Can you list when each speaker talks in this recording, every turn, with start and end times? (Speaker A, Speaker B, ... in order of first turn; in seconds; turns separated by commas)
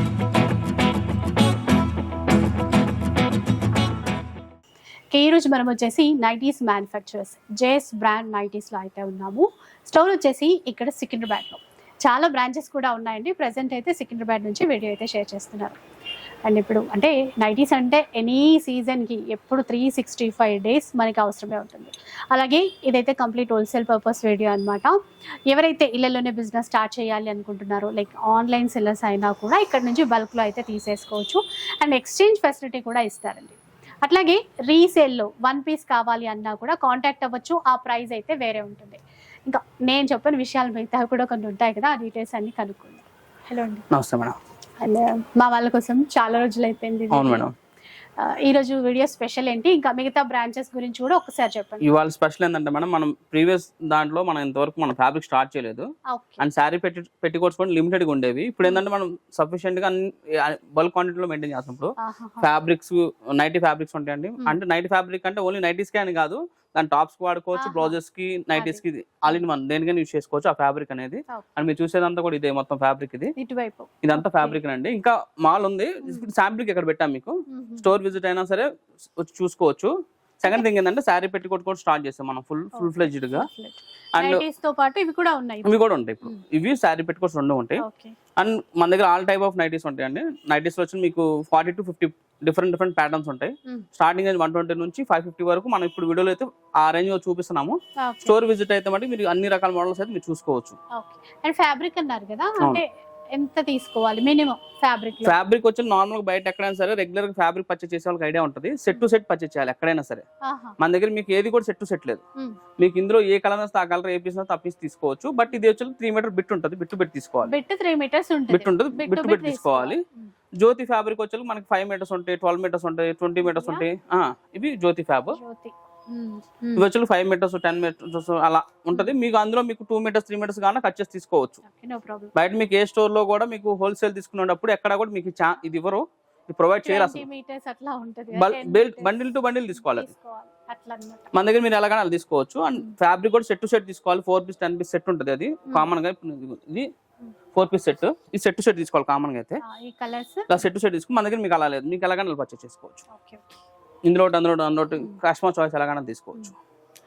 Speaker A: 5.1-15.8, Speaker A: 16.4-25.0, Speaker A: 25.5-43.9, Speaker B: 43.9-44.4, Speaker A: 44.8-47.5, Speaker B: 47.1-47.5, Speaker A: 48.2-51.9, Speaker B: 51.8-55.9, Speaker A: 56.1-56.5, Speaker B: 56.4-73.3, Speaker A: 62.0-62.5, Speaker A: 67.5-68.0, Speaker A: 68.5-69.4, Speaker A: 73.4-74.6, Speaker B: 74.0-83.5, Speaker A: 77.5-77.9, Speaker A: 82.8-86.4, Speaker B: 84.2-84.5, Speaker B: 85.7-87.8, Speaker A: 87.8-88.2, Speaker B: 88.4-100.8, Speaker A: 98.0-98.4, Speaker A: 100.9-105.4, Speaker B: 105.2-110.2, Speaker A: 110.4-110.8, Speaker B: 110.8-112.2, Speaker B: 112.8-117.5, Speaker A: 117.4-120.3, Speaker B: 118.5-120.0, Speaker B: 120.6-125.4, Speaker A: 123.4-123.8, Speaker A: 125.3-126.9, Speaker B: 126.8-131.6, Speaker A: 131.6-132.3, Speaker B: 132.3-137.2, Speaker A: 136.8-139.2, Speaker B: 138.3-140.1, Speaker A: 139.7-141.3, Speaker B: 141.3-146.9, Speaker B: 147.5-149.6, Speaker A: 149.6-150.6, Speaker B: 150.5-153.1, Speaker A: 153.1-153.4, Speaker B: 154.1-156.6